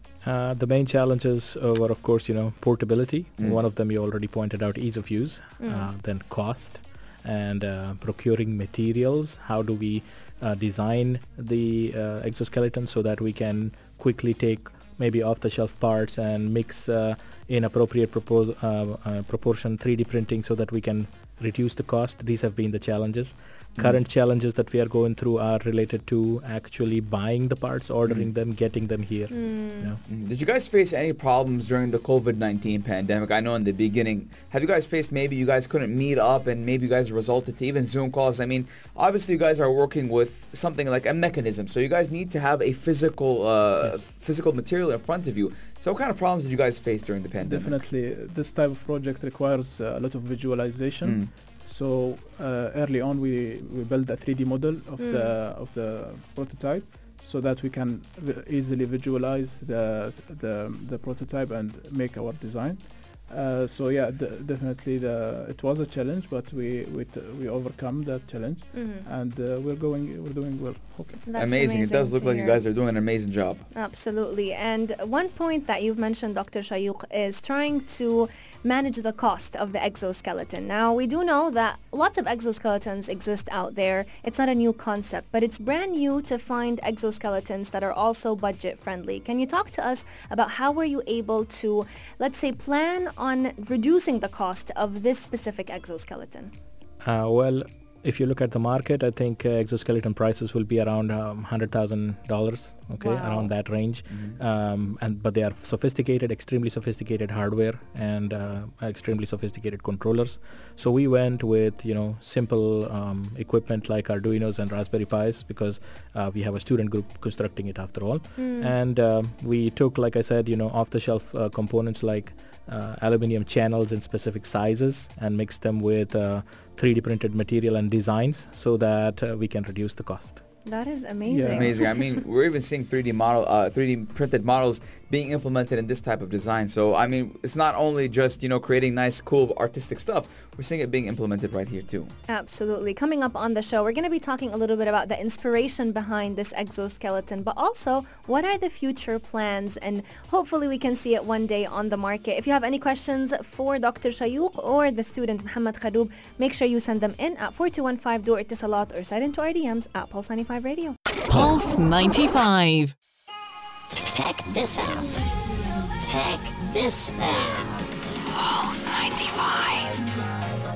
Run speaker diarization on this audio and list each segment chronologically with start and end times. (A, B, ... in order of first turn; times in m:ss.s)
0:00.2-0:30.0 A
0:05.6-0:05.9 B
0:29.3-0:29.9 B
0:30.1-0:47.8 C
0:47.4-1:11.3 D
0:51.0-0:51.3 C
0:55.0-0:55.3 B
1:08.7-1:09.1 B
1:11.2-1:12.6 B
1:11.4-1:13.7 C
1:13.7-1:36.5 B
1:37.0-2:10.4 A
1:43.0-1:43.5 B
1:44.1-1:44.4 C
1:58.4-1:58.7 B
2:10.7-2:11.9 B
2:11.3-2:11.8 D
2:11.5-2:22.1 C
2:22.3-2:41.0 B
2:41.3-2:42.9 E
2:43.9-2:45.2 F
2:46.0-2:47.7 F
2:48.2-2:50.1 E